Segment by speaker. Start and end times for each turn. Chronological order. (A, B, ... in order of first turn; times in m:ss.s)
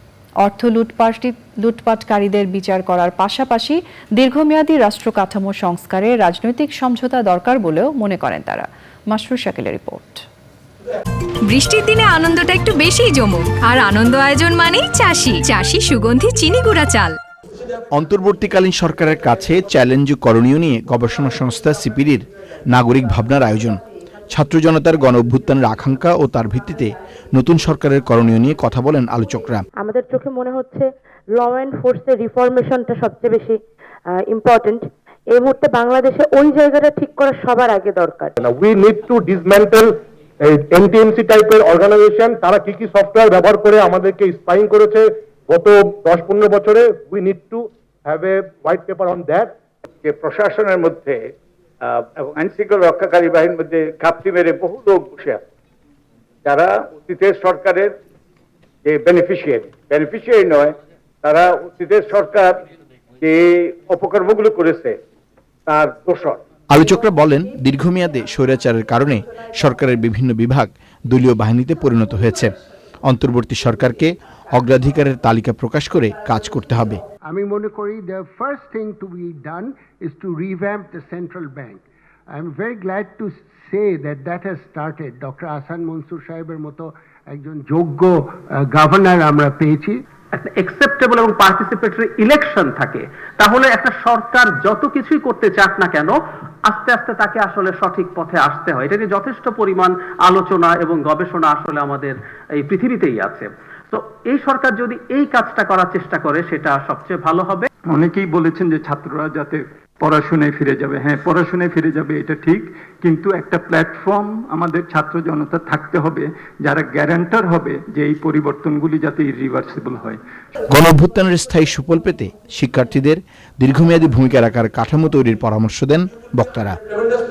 0:00.4-0:10.2 A
0:11.5-0:17.2 B
0:17.9-0:23.8 C
0:24.3-0:29.6 C
0:29.8-0:33.6 D
0:34.2-0:38.3 D
0:38.4-0:49.5 E
0:50.0-0:51.3 F
0:51.8-0:55.4 F
0:56.4-0:58.0 F
0:58.8-1:02.6 F
1:03.2-1:05.0 F
1:05.7-1:06.4 F
1:06.7-1:12.5 C
1:13.1-1:17.0 C
1:17.3-1:30.0 G
1:30.4-1:47.7 H
1:47.9-2:00.2 I
2:00.7-2:06.8 C